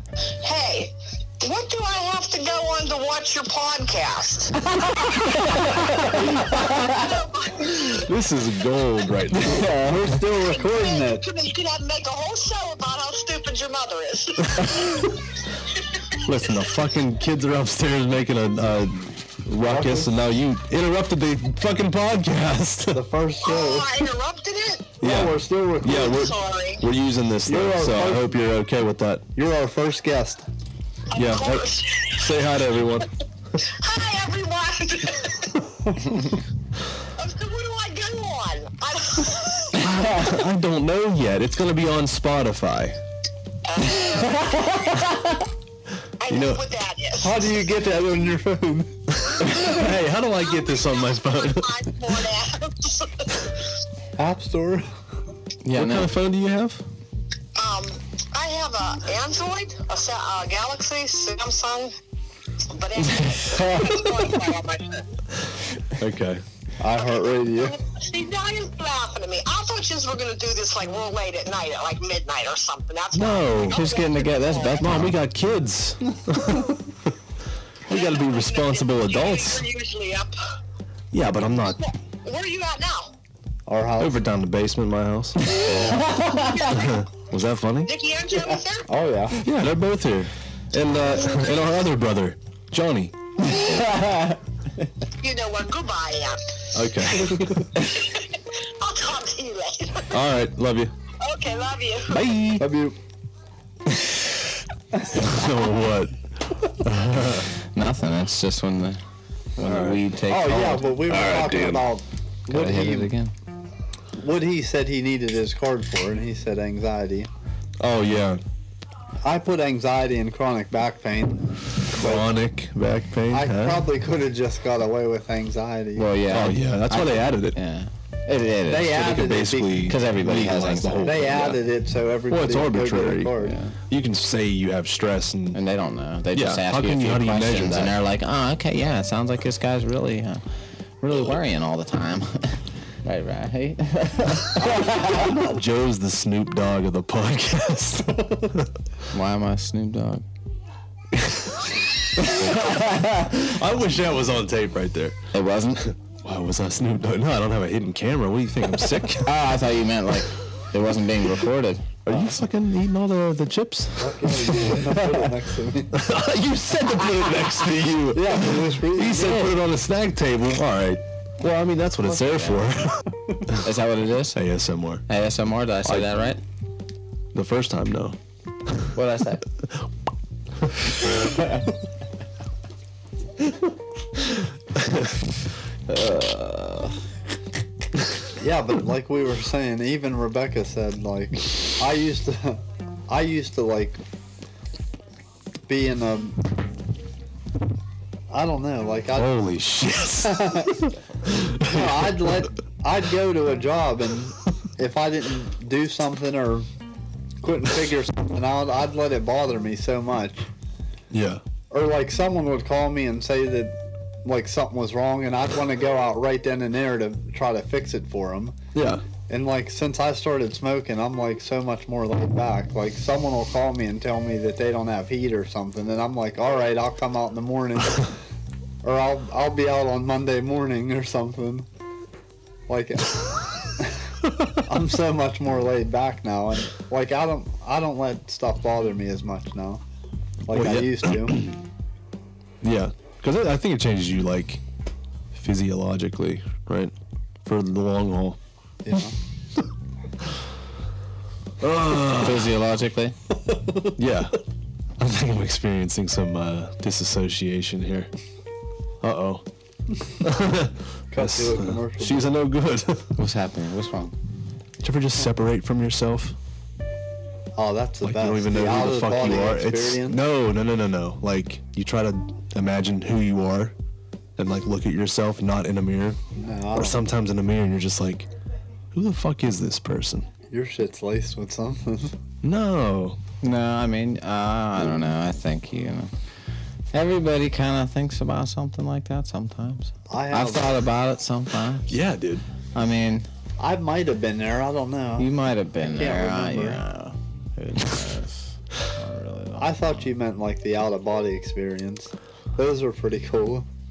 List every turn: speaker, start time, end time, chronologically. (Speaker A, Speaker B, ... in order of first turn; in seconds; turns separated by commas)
Speaker A: 0.2-8.1, Speaker B: 5.2-7.2, Speaker C: 7.8-9.7, Speaker B: 9.4-10.1, Speaker D: 9.5-11.2, Speaker A: 10.3-16.6, Speaker C: 16.2-23.0, Speaker D: 19.6-20.1, Speaker D: 22.9-23.9, Speaker A: 23.4-24.9, Speaker D: 25.0-26.3, Speaker C: 25.0-29.2, Speaker A: 25.9-26.8, Speaker D: 27.5-28.3, Speaker D: 29.3-30.4, Speaker A: 31.1-32.5, Speaker C: 31.1-33.1, Speaker A: 33.6-35.6, Speaker A: 37.1-40.3, Speaker C: 39.8-43.0, Speaker A: 43.6-45.1, Speaker A: 46.2-47.5, Speaker C: 46.3-46.6, Speaker D: 47.2-49.0, Speaker C: 49.2-51.8, Speaker A: 50.4-53.5, Speaker D: 54.2-54.9, Speaker B: 55.6-56.1, Speaker C: 55.7-56.8, Speaker A: 57.5-61.9, Speaker A: 62.7-65.1, Speaker B: 63.2-64.3, Speaker C: 66.0-66.4, Speaker D: 66.8-67.8, Speaker A: 67.0-75.0, Speaker C: 73.1-73.8, Speaker B: 73.6-75.2, Speaker C: 74.8-76.7, Speaker C: 77.9-79.7, Speaker A: 77.9-80.3, Speaker C: 81.1-81.8, Speaker A: 81.7-83.1, Speaker D: 83.7-84.2, Speaker C: 84.0-85.4, Speaker B: 85.6-86.5, Speaker A: 85.7-87.0, Speaker C: 86.7-87.9, Speaker A: 87.8-88.9, Speaker D: 88.8-89.4, Speaker C: 89.4-93.1, Speaker A: 91.2-91.5, Speaker B: 93.5-94.4, Speaker A: 95.2-100.2, Speaker C: 96.7-97.7, Speaker C: 100.1-100.9, Speaker A: 101.2-102.2, Speaker C: 102.1-102.6, Speaker D: 102.6-103.0, Speaker C: 105.1-107.5, Speaker B: 107.6-109.0, Speaker B: 109.5-110.9, Speaker C: 109.6-110.0, Speaker D: 110.3-113.1, Speaker C: 111.0-111.9, Speaker B: 112.5-113.3, Speaker D: 114.2-117.3, Speaker C: 117.8-118.4, Speaker D: 119.2-122.3, Speaker C: 121.9-123.9, Speaker D: 123.3-126.1, Speaker B: 126.0-129.1, Speaker C: 126.3-127.6, Speaker D: 128.7-129.9, Speaker C: 128.8-131.6, Speaker B: 129.8-131.5, Speaker D: 131.0-133.6, Speaker C: 132.3-133.3, Speaker B: 133.4-133.8, Speaker C: 133.9-135.6, Speaker B: 135.5-140.4, Speaker C: 136.3-138.0, Speaker B: 141.0-145.4, Speaker C: 145.1-148.7, Speaker B: 149.1-150.2, Speaker C: 151.1-151.7, Speaker B: 152.2-153.3, Speaker C: 152.3-155.2, Speaker B: 155.3-155.8, Speaker C: 155.8-159.3, Speaker B: 159.2-162.2, Speaker C: 162.0-164.8, Speaker D: 164.0-166.0, Speaker C: 165.9-173.7, Speaker D: 168.1-169.4, Speaker B: 169.1-169.6, Speaker B: 172.0-172.7, Speaker B: 173.5-174.4, Speaker C: 174.3-175.0, Speaker B: 175.1-176.4, Speaker C: 177.3-178.9, Speaker B: 178.9-179.4, Speaker B: 181.2-181.7, Speaker C: 184.7-185.1, Speaker B: 185.9-187.0, Speaker D: 188.3-194.0, Speaker D: 195.7-196.4, Speaker D: 198.3-199.3, Speaker C: 199.1-202.5, Speaker D: 200.2-200.9, Speaker D: 201.6-206.7, Speaker D: 207.4-210.4, Speaker C: 211.1-211.4, Speaker D: 211.7-218.6, Speaker C: 218.7-219.0, Speaker D: 219.3-228.2, Speaker D: 228.8-231.7, Speaker D: 232.7-234.0, Speaker D: 234.5-239.8, Speaker D: 240.4-241.4, Speaker C: 240.5-241.6, Speaker C: 242.6-244.6, Speaker C: 245.3-246.9, Speaker C: 247.4-248.4, Speaker D: 248.8-249.1, Speaker C: 251.6-252.5, Speaker B: 252.0-253.1, Speaker C: 253.9-254.4, Speaker C: 255.0-258.1, Speaker C: 259.0-259.4, Speaker C: 260.2-263.1, Speaker D: 261.1-262.3, Speaker B: 263.1-264.1, Speaker C: 264.8-266.4, Speaker D: 267.6-270.2, Speaker C: 268.0-273.7, Speaker C: 274.4-276.2, Speaker D: 276.3-277.0, Speaker C: 276.7-278.3, Speaker C: 278.9-280.3, Speaker D: 280.5-282.1, Speaker C: 282.4-283.2, Speaker B: 283.4-286.1, Speaker B: 286.9-291.9, Speaker D: 290.1-290.8, Speaker C: 291.9-292.4, Speaker B: 292.7-293.3, Speaker D: 293.6-295.3, Speaker B: 295.2-300.0, Speaker D: 295.8-296.8, Speaker D: 299.6-303.6